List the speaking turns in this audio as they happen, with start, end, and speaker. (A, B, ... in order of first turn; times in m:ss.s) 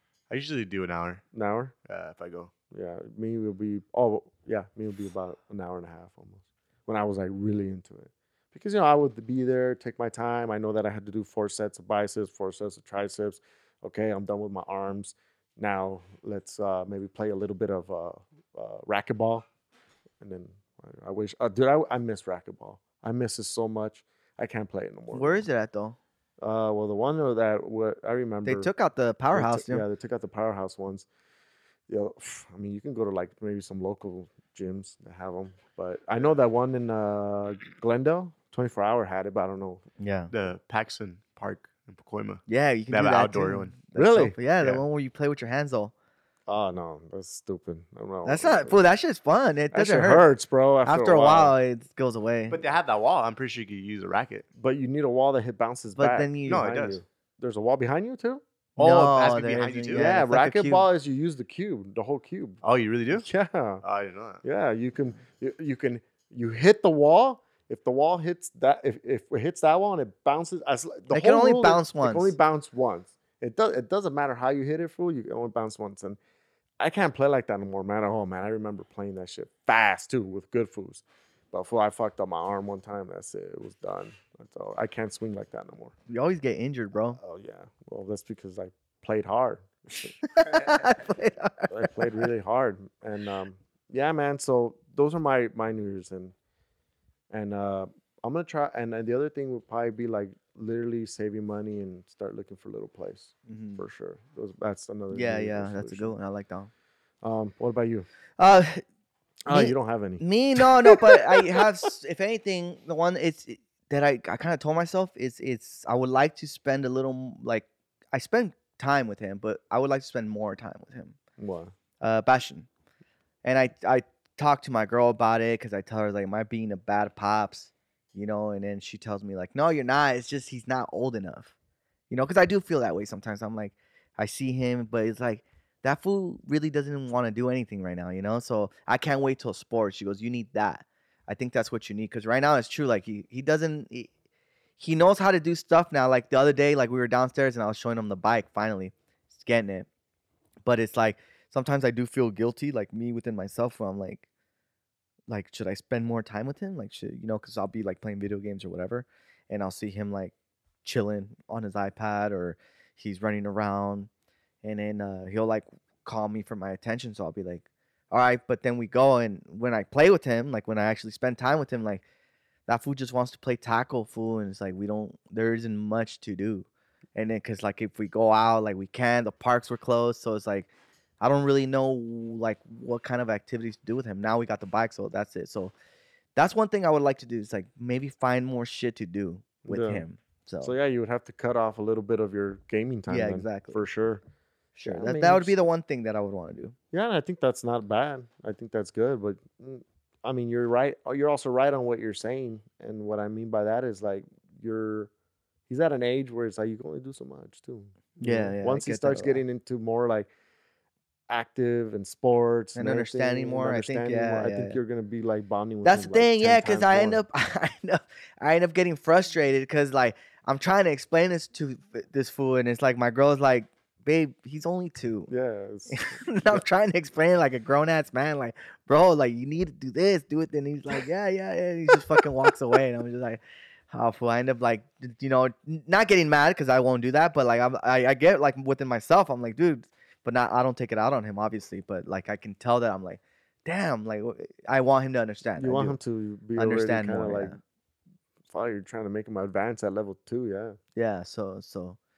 0:00.3-0:01.2 A
0:01.3-0:01.7 B
0:01.9-0:02.5 A
0:02.7-0:19.5 B
0:20.2-0:25.5 B
0:25.1-0:26.0 C
0:26.4-0:28.7 B
0:28.4-0:29.8 C
0:29.3-0:31.1 B
0:31.9-0:39.8 B
0:40.0-0:40.3 C
0:40.3-0:43.8 A
0:42.5-0:45.9 C
0:44.0-0:44.4 B
0:44.6-0:44.8 A
0:46.5-0:48.8 B
0:48.2-0:50.3 C
0:49.7-0:51.5 B
0:50.8-0:52.6 C
0:52.5-0:54.5 A
0:54.6-0:58.4 B
0:56.0-0:56.7 C
0:56.5-0:57.0 A
0:58.8-1:00.1 A
0:58.8-1:00.9 C
0:59.9-1:02.6 B
1:02.6-1:03.3 A
1:03.1-1:03.8 B
1:03.8-1:04.4 A
1:04.4-1:16.2 B
1:11.1-1:12.4 C
1:16.8-1:25.9 B
1:26.1-1:27.2 C
1:27.2-1:30.7 B
1:30.2-1:32.2 C
1:31.7-1:36.3 B
1:37.3-1:46.2 B
1:43.5-1:43.8 C
1:45.1-1:46.7 C
1:47.2-1:48.1 B
1:48.4-1:48.8 C
1:49.5-1:51.7 B
1:49.5-2:01.2 C
2:01.4-2:01.7 B
2:02.0-2:02.7 C
2:03.4-2:11.5 C
2:12.1-2:24.1 C
2:24.8-2:29.9 C
2:30.6-2:34.3 C
2:35.3-2:40.3 C
2:40.8-2:44.1 C
2:44.6-2:52.0 C
2:52.7-3:05.7 C
3:06.4-3:10.7 C
3:09.6-3:10.0 B
3:10.6-3:14.2 B
3:13.1-3:13.8 C
3:14.8-3:16.8 C
3:14.8-3:15.5 B
3:16.9-3:25.1 B
3:25.7-3:30.3 B
3:28.2-3:29.4 C
3:31.3-3:37.2 B
3:32.8-3:34.8 C
3:35.8-3:45.3 C
3:45.3-3:46.6 B
3:45.9-4:06.0 C
4:05.6-4:07.6 B
4:06.6-4:07.6 C
4:08.5-4:10.8 B
4:11.0-4:12.0 C